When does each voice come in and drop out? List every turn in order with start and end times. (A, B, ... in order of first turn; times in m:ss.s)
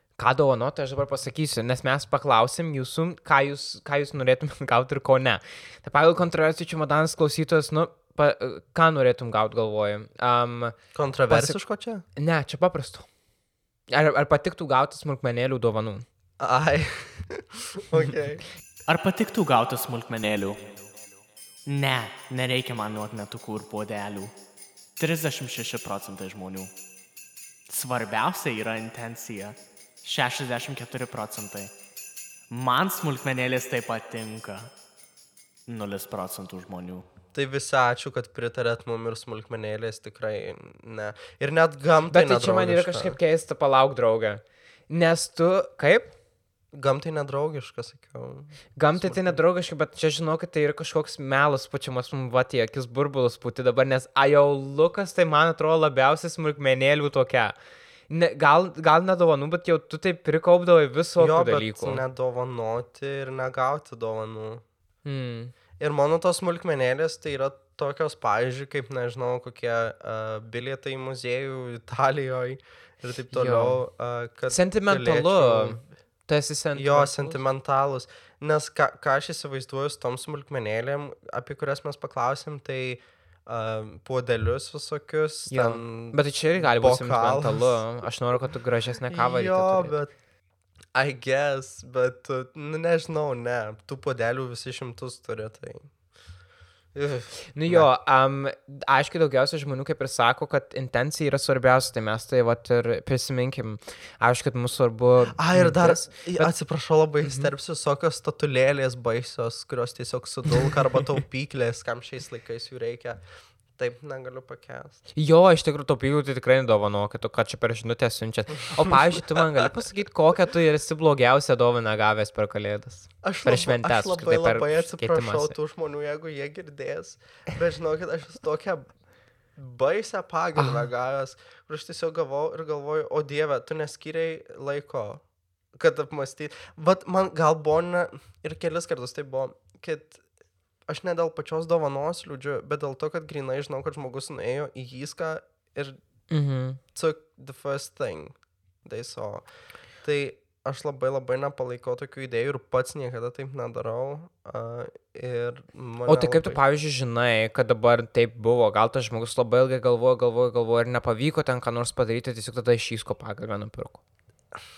0:00.2-0:10.8 A
0:10.9-0:12.0 B
0:11.3-0:11.6 A
0:12.2-0:13.1 A
0:13.9-0:16.0 A
0:16.4-0:18.4 B
0:18.9-0:20.7 C
0:21.7-0:24.3 C
0:25.0-0:26.7 C
0:27.7-0:31.7 C
0:32.5-0:34.7 C
0:35.7-0:37.0 C
0:37.3-0:43.2 B
0:42.1-0:46.1 A
0:46.7-0:49.4 B
0:48.8-0:57.5 A
0:58.1-1:02.0 A
1:01.2-1:04.6 B
1:05.0-1:05.5 A
1:05.8-1:15.9 B
1:13.3-1:13.8 A
1:14.5-1:17.4 A
1:16.7-1:27.8 B
1:25.5-1:29.9 A
1:29.1-1:30.1 B
1:30.9-1:35.9 B
1:36.9-1:37.9 B
1:37.5-1:46.5 A
1:45.3-1:53.2 B
1:53.8-1:55.0 B
1:55.2-2:05.6 A
1:58.8-1:59.6 B
2:03.2-2:08.9 B
2:09.6-2:15.2 B
2:10.6-2:10.8 A
2:15.7-2:20.2 B
2:20.9-2:26.0 B
2:26.3-2:26.8 A
2:26.9-2:29.4 B
2:30.0-2:36.6 B
2:36.1-2:44.0 A